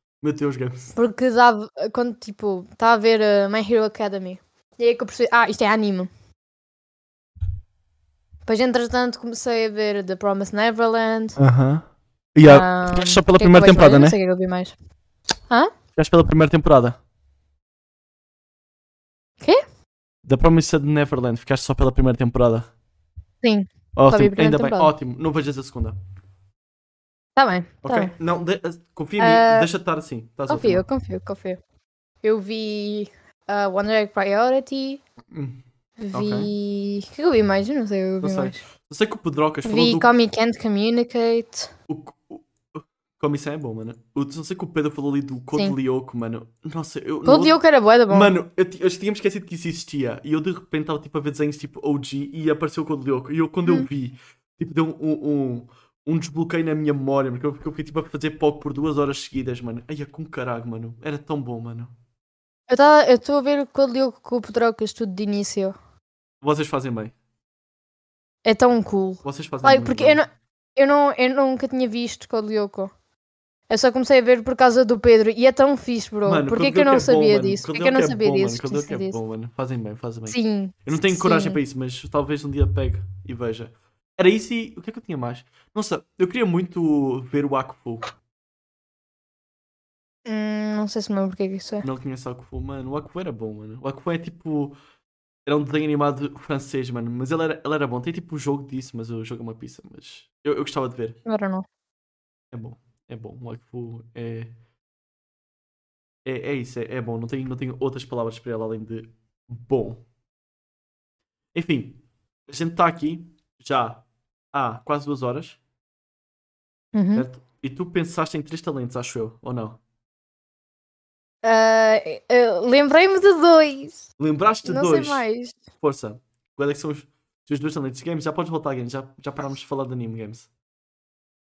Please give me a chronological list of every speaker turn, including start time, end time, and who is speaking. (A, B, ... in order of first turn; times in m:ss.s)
0:00.2-0:00.9 A
0:01.0-0:06.1 B
0:08.5-0:11.4 B
0:11.4-0:14.2 A
0:12.4-0:14.7 B
0:16.0-0:17.0 A
0:20.2-0:22.7 A
0:23.4-0:24.9 B
0:24.0-0:26.0 A
0:27.4-0:28.1 B
0:27.8-0:30.9 A
0:29.2-0:29.7 B
0:30.5-0:31.6 B
0:32.2-0:35.0 B
0:35.3-0:35.6 A
0:36.0-0:38.6 B
0:36.1-0:36.5 A
0:38.2-0:40.1 A
0:39.6-0:41.7 B
0:41.9-1:01.9 A
0:47.2-0:48.3 B
1:02.7-1:05.8 B
1:06.4-1:07.1 A
1:08.4-1:12.9 B
1:09.2-1:10.2 A
1:13.7-1:19.2 B
1:16.2-1:28.1 A
1:20.3-1:21.6 B
1:30.3-1:31.9 B
1:31.8-1:34.8 A
1:35.5-1:41.2 A
1:41.3-1:41.6 B
1:42.5-1:44.5 A
1:46.2-1:50.0 A
1:51.6-1:55.6 A
1:56.9-1:57.3 B
1:57.2-1:59.8 A
2:01.4-2:04.0 B
2:04.2-2:10.5 A
2:04.6-2:05.6 B